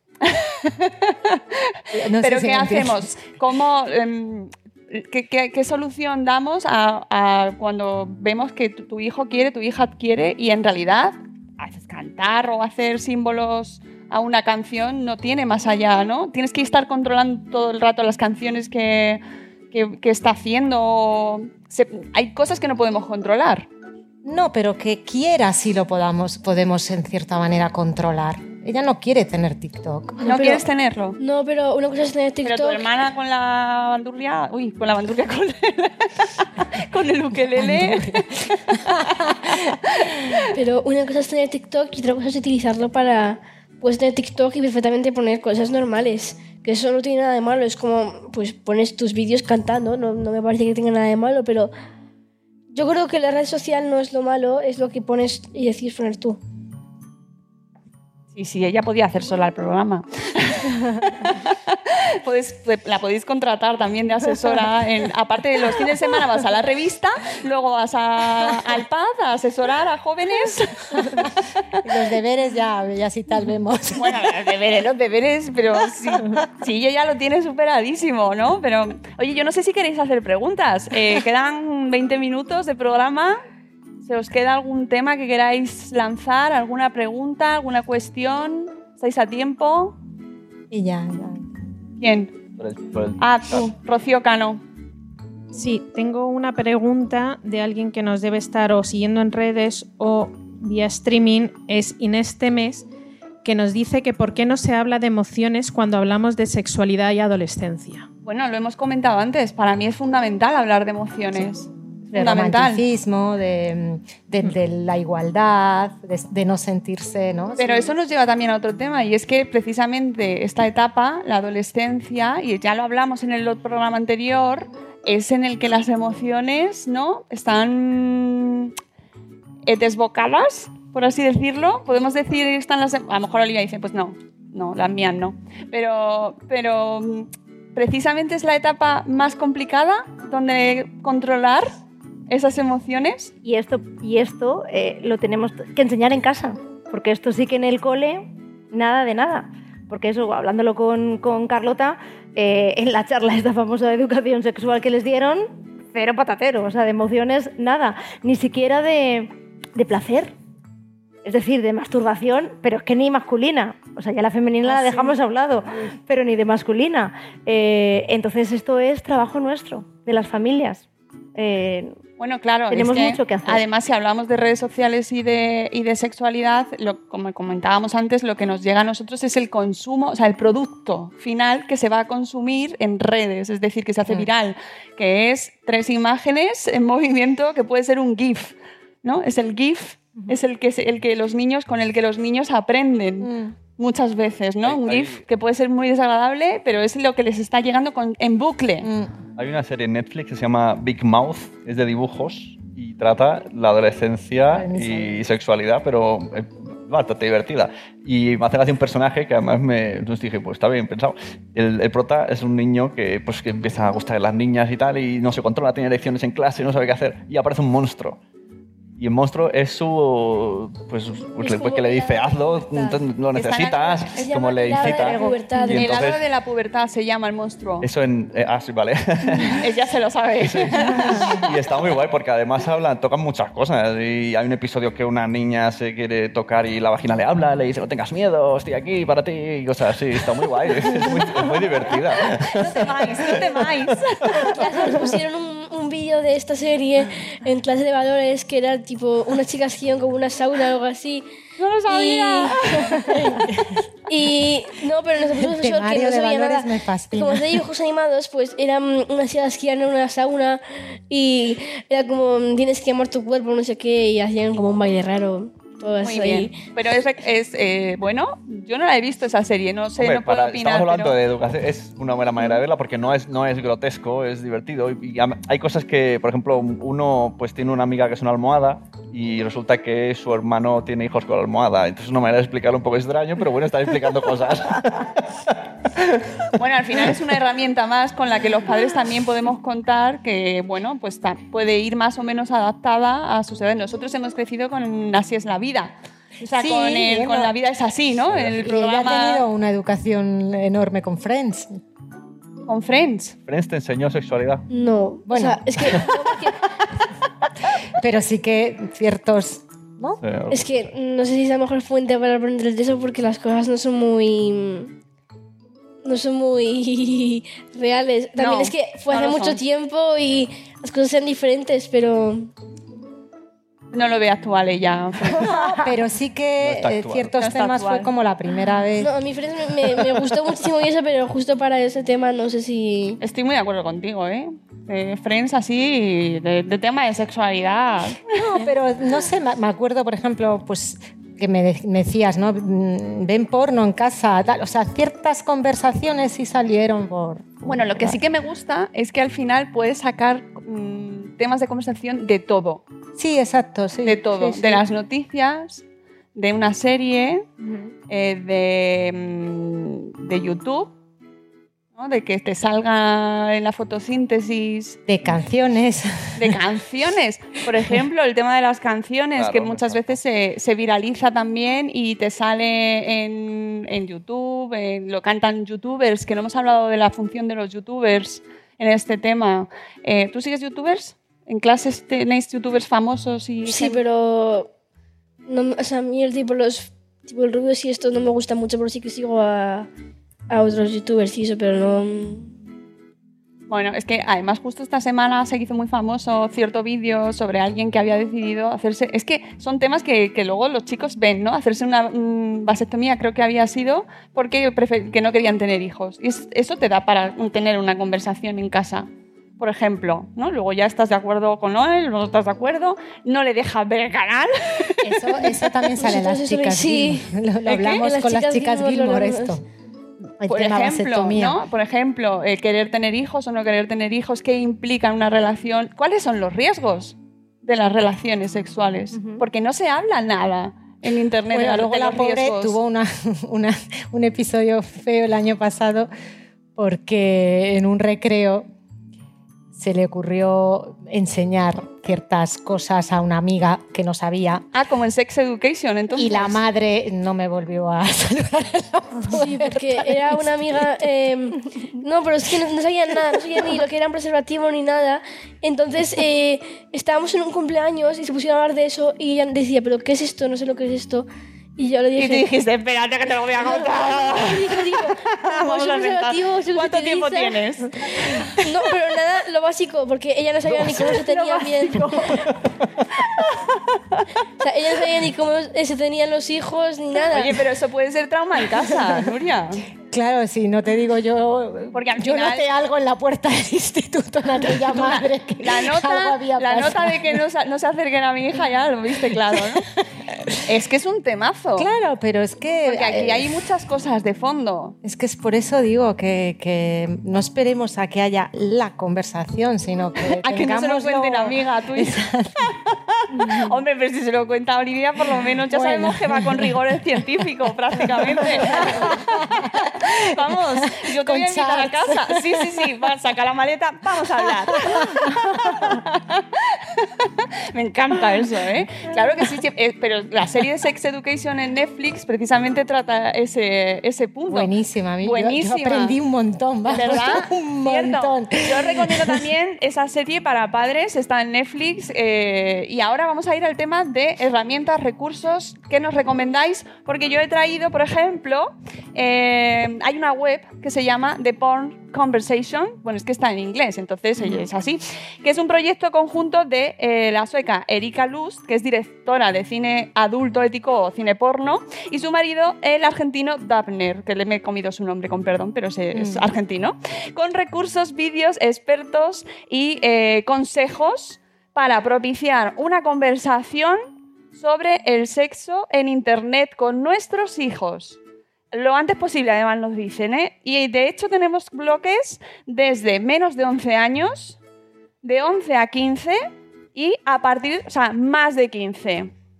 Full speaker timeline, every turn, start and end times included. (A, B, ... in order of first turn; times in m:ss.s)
0:00.2-0:23.7 A
0:01.9-0:03.3 B
0:24.2-0:30.2 B
0:30.2-0:31.2 A
0:30.2-0:30.6 C
0:31.2-0:32.9 C
0:32.4-0:38.2 A
0:37.4-0:39.6 B
0:38.8-0:40.1 A
0:40.5-0:51.7 C
0:52.7-0:56.4 C
0:58.3-1:11.3 A
1:11.8-1:14.2 B
1:13.9-1:23.4 A
1:24.0-1:30.0 A
1:30.7-1:31.4 B
1:32.0-1:32.3 A
1:32.6-1:33.6 D
1:33.2-1:34.6 A
1:35.5-1:42.8 E
1:43.4-1:48.0 E
1:48.2-1:52.8 A
1:52.1-1:57.9 B
1:57.6-2:08.7 A
2:09.6-2:21.7 A
2:22.3-2:23.3 A
2:23.4-2:40.3 F
2:41.2-2:51.9 F
2:52.2-3:18.9 A
2:52.7-2:53.6 F
3:13.2-3:13.6 B
3:14.6-3:15.2 D
3:18.8-3:19.2 B
3:19.4-3:38.2 D
3:24.5-3:25.2 B
3:39.0-3:46.2 D
3:41.4-3:43.0 C
3:43.3-3:47.9 A
3:44.1-3:46.0 C
3:47.8-3:49.6 D
3:49.4-3:51.3 A
3:50.4-4:03.2 D
4:02.5-4:04.5 A
4:04.5-4:11.3 C
4:11.6-4:13.0 A
4:11.9-4:12.8 C
4:14.1-4:26.6 C
4:15.4-4:17.6 B
4:26.0-4:31.1 A
4:30.0-4:45.5 D
4:46.6-4:59.4 A
4:56.4-4:57.6 B
4:58.6-5:01.8 B
5:02.7-5:03.3 A
5:03.5-5:04.6 D
5:04.7-5:06.6 C
5:05.3-5:06.0 B
5:08.0-5:10.2 B
5:10.2-5:10.8 D
5:10.5-5:14.9 C
5:16.0-5:22.5 C
5:18.4-5:19.6 A
5:23.9-5:25.6 A
5:25.5-5:29.1 B
5:26.6-5:27.3 D
5:27.4-5:28.1 A
5:29.0-5:33.2 C
5:33.2-5:38.5 A
5:38.4-5:48.2 B
5:47.6-5:52.8 A
5:53.2-5:54.8 B
5:54.0-5:55.8 A
5:56.3-5:57.5 A
5:58.1-6:00.9 A
6:02.0-6:05.0 A
6:05.0-6:06.6 B
6:06.3-6:24.0 A
6:09.4-6:10.2 D
6:23.6-6:24.7 C
6:25.5-6:29.9 C
6:30.5-6:32.5 C
6:33.7-6:49.1 A
6:49.6-6:55.7 A
6:55.0-6:59.6 B
6:56.0-6:59.6 C
7:00.4-7:01.6 B
7:00.4-7:12.8 A
7:09.1-7:09.4 F
7:11.5-7:16.1 B
7:16.8-7:18.6 B
7:19.7-7:24.6 B
7:24.7-7:26.6 A
7:26.1-7:30.8 B
7:29.3-7:41.3 C
7:41.8-7:42.5 C
7:42.2-7:48.3 A
7:43.6-7:47.6 C
7:48.2-7:52.5 C
7:51.0-7:52.4 A
7:53.2-7:54.2 A
7:54.6-7:57.6 C
7:57.3-7:59.8 A
8:00.1-8:07.4 B
8:01.9-8:02.7 A
8:04.9-8:09.9 A
8:10.3-8:10.6 B
8:10.6-8:11.9 A
8:11.7-8:13.6 B
8:12.8-8:15.0 A
8:15.0-8:22.8 B
8:20.2-8:46.2 A
8:23.3-8:23.7 B
8:25.7-8:32.8 B
8:34.7-8:36.0 B
8:44.5-8:49.3 B
8:46.9-9:24.0 A
9:16.1-9:16.5 B
9:24.5-9:28.2 A
9:28.7-9:34.6 A
9:35.2-9:36.4 A
9:36.9-9:39.3 A